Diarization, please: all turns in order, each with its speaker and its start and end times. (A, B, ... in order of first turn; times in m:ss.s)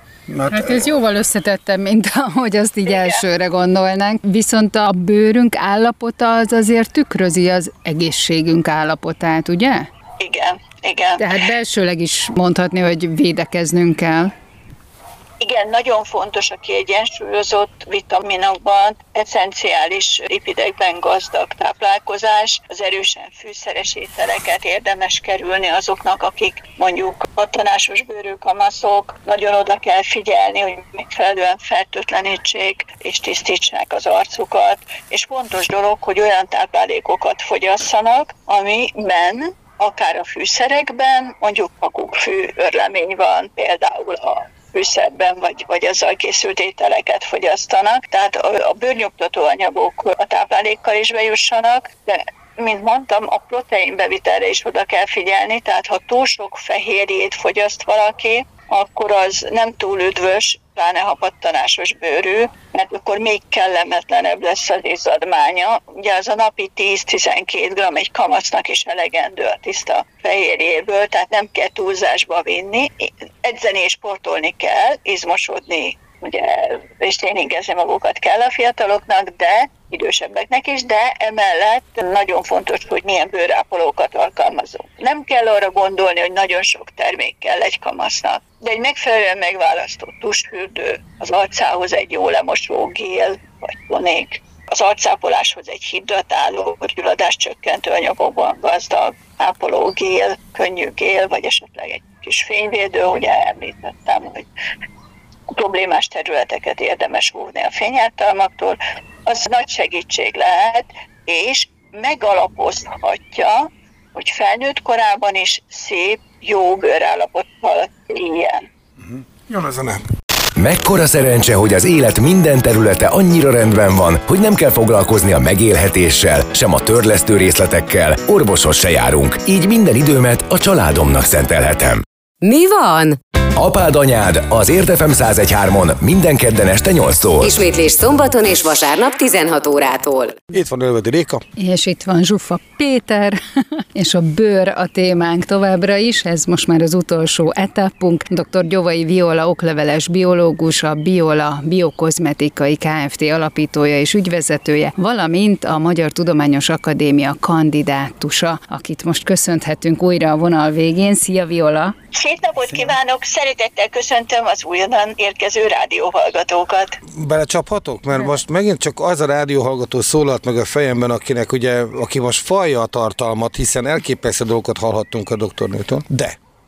0:00.3-0:00.9 A
0:00.5-0:09.9 B
0:02.9-0:03.2 C
0:10.2-0:11.4 C
0:11.2-0:14.3 B
0:15.4-1:44.5 C
1:45.5-1:58.7 C
1:59.0-2:00.0 A
2:00.6-2:12.0 D
2:12.4-2:13.2 E
2:13.6-2:17.5 D
2:17.4-2:20.4 E
2:20.5-2:21.4 A
2:21.6-2:23.4 B
2:24.0-2:42.0 B
2:42.1-2:47.0 C
2:47.1-2:56.4 A